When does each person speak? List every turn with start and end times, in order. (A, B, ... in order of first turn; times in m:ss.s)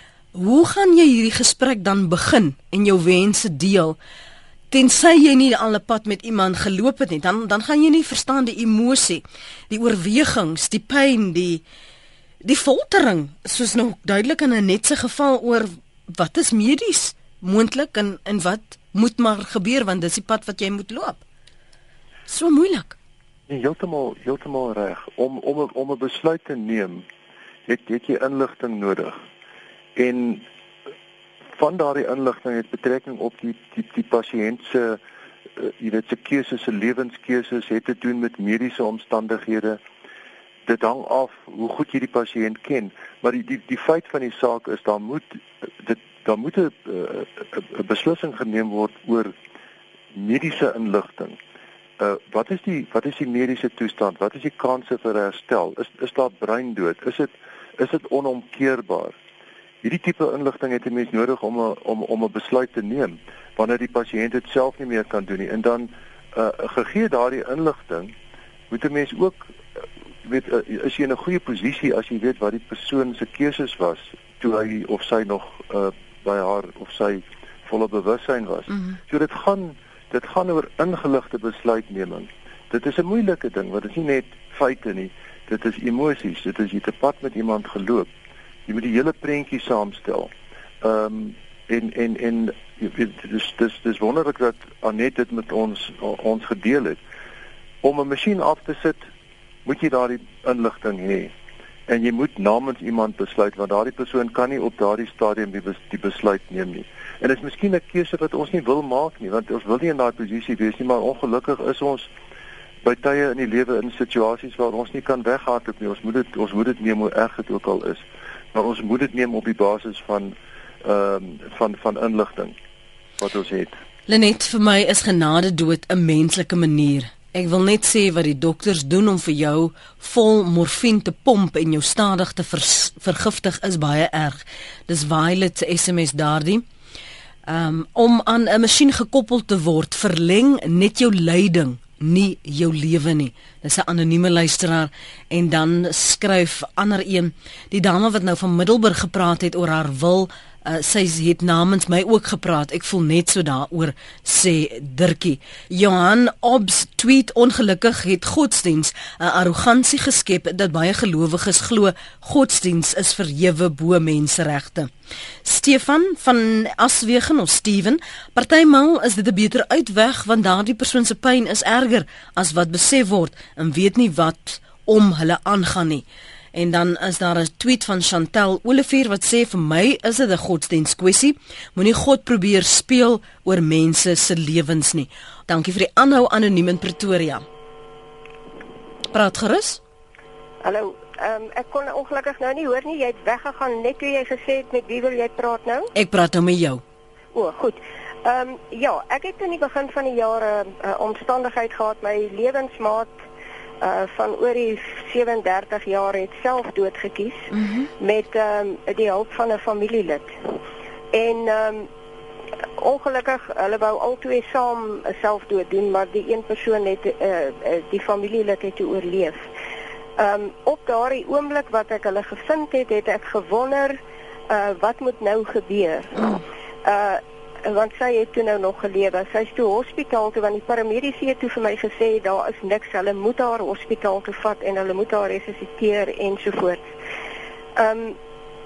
0:00.3-0:04.0 A
0:04.7-0:11.6 A
0:12.4-0:21.2 A
0:22.3-0:23.0 A
0:23.5-0:27.0 B
0:27.7-0:29.2 B
0:30.0-0:30.4 B
0:31.5-0:35.0 B
0:35.6-0:39.8 B
0:40.6-0:49.3 B
0:50.1-0:51.4 B
0:52.0-0:59.1 B
0:59.8-1:08.1 B
1:08.7-1:09.5 B
1:10.2-1:28.1 B
1:18.7-1:19.0 A
1:28.7-1:30.3 B
1:30.8-1:37.0 B
1:37.8-1:39.0 B
1:39.6-1:41.3 B
1:41.9-1:52.1 B
1:52.8-2:02.5 B
2:03.2-2:03.7 B
2:04.1-2:16.6 A
2:17.5-2:44.9 A
2:45.4-3:07.4 A
3:09.1-3:09.8 A
3:10.6-3:15.9 C
3:15.9-3:16.8 A
3:17.3-3:23.1 C
3:23.8-3:30.3 C
3:27.5-3:27.9 A
3:31.1-3:31.9 C
3:32.8-3:39.4 C
3:40.2-3:44.0 C
3:44.5-3:56.9 C
3:57.8-3:58.2 C